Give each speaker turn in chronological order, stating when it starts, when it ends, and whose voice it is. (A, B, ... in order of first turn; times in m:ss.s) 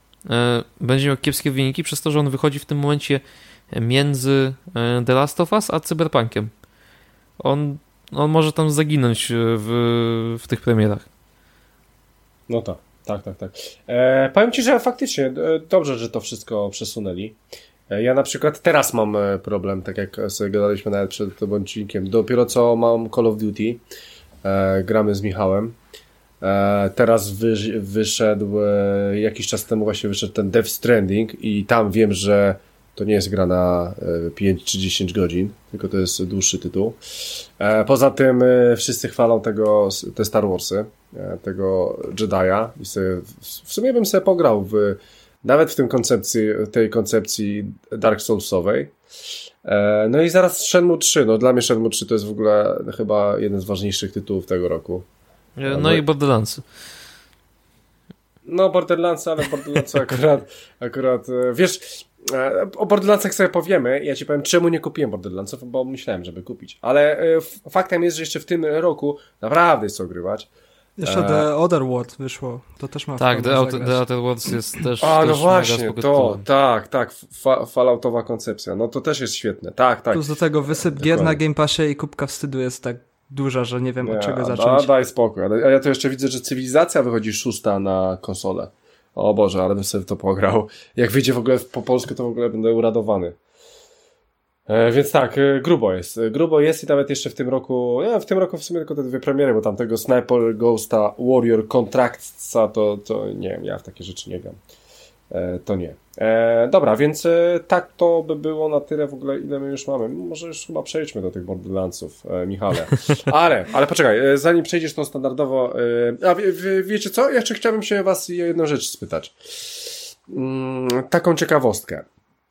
0:00.3-0:06.5 A
0:07.4-0:11.1 A
0:12.5-0:17.4 B
0:17.9-0:23.8 B
0:24.4-0:25.8 B
0:26.4-0:49.0 B
0:49.6-0:55.1 B
0:55.6-0:56.6 A
0:55.7-0:56.0 B
0:58.5-1:10.5 B
1:11.0-1:14.0 C
1:11.1-1:11.5 B
1:13.2-1:16.4 A
1:15.0-1:20.3 B
1:20.1-1:24.9 C
1:20.8-1:21.4 B
1:24.0-1:33.4 B
1:34.7-1:44.6 B
1:45.3-2:02.1 B